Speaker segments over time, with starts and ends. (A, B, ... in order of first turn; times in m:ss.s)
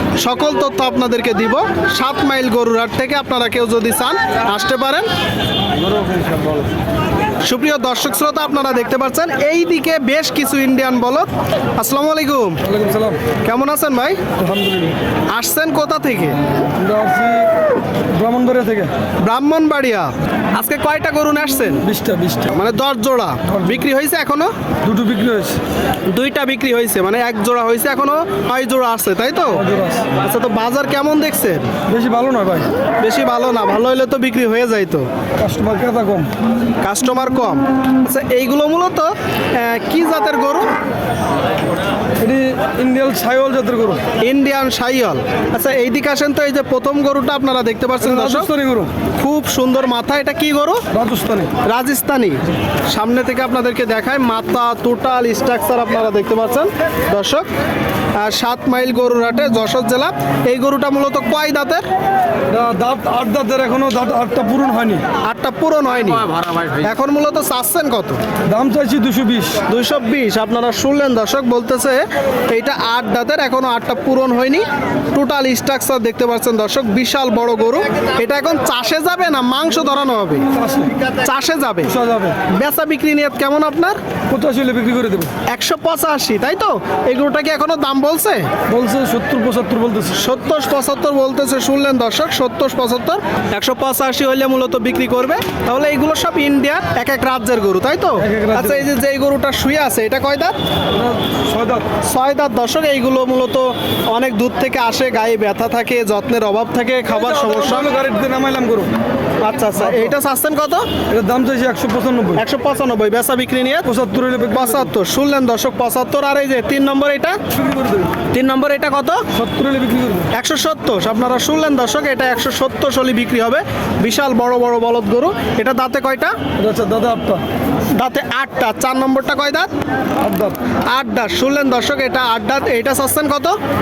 0:00.2-0:05.1 A
0:05.9-0:06.6 B
0:07.4-0:12.6 A
0:12.6-0:13.2 B
0:13.4-0:14.2 A
0:14.4-0:15.0 B
0:15.3-0:16.4 A
0:16.8-0:17.5 B
0:18.1-0:18.9 B
0:19.2-0:21.8 A
0:21.8-0:22.5 B
0:22.5-0:24.5 A
0:23.5-0:23.8 B
0:24.8-0:25.6 B
0:26.1-0:29.6 A
0:29.5-0:30.1 B
0:30.2-0:31.7 A
0:31.9-0:32.7 B
0:33.0-0:35.1 A
0:35.4-0:36.3 B
0:36.8-0:40.7 A
0:42.2-0:44.0 B
0:44.2-0:48.5 A
0:48.0-0:48.9 B
0:49.2-0:50.8 A
0:50.9-0:51.5 B
0:51.6-0:52.4 A
0:52.9-0:57.5 A
0:58.2-1:01.8 A
1:02.5-1:05.0 B
1:05.2-1:08.2 A
1:08.4-1:09.6 B
1:09.7-1:20.5 A
1:20.5-1:20.9 B
1:21.1-1:21.9 A
1:21.8-1:22.4 B
1:22.5-1:24.0 A
1:24.3-1:25.3 B
1:25.5-1:28.5 A
1:28.7-1:30.2 B
1:30.1-1:40.6 A
1:38.2-1:38.8 B
1:40.9-1:41.9 B
1:42.0-1:47.9 A
1:47.1-1:48.9 B
1:49.4-1:50.9 A
1:49.8-1:50.1 B
1:51.1-1:52.4 B
1:52.4-1:53.9 A
1:53.8-1:54.9 B
1:54.5-1:57.4 A
1:57.5-1:58.1 B
1:58.3-1:59.2 A
1:59.3-2:00.3 B
2:00.3-2:06.4 A
2:06.6-2:07.4 B
2:07.9-2:09.7 A
2:10.2-2:10.6 B
2:10.9-2:13.6 A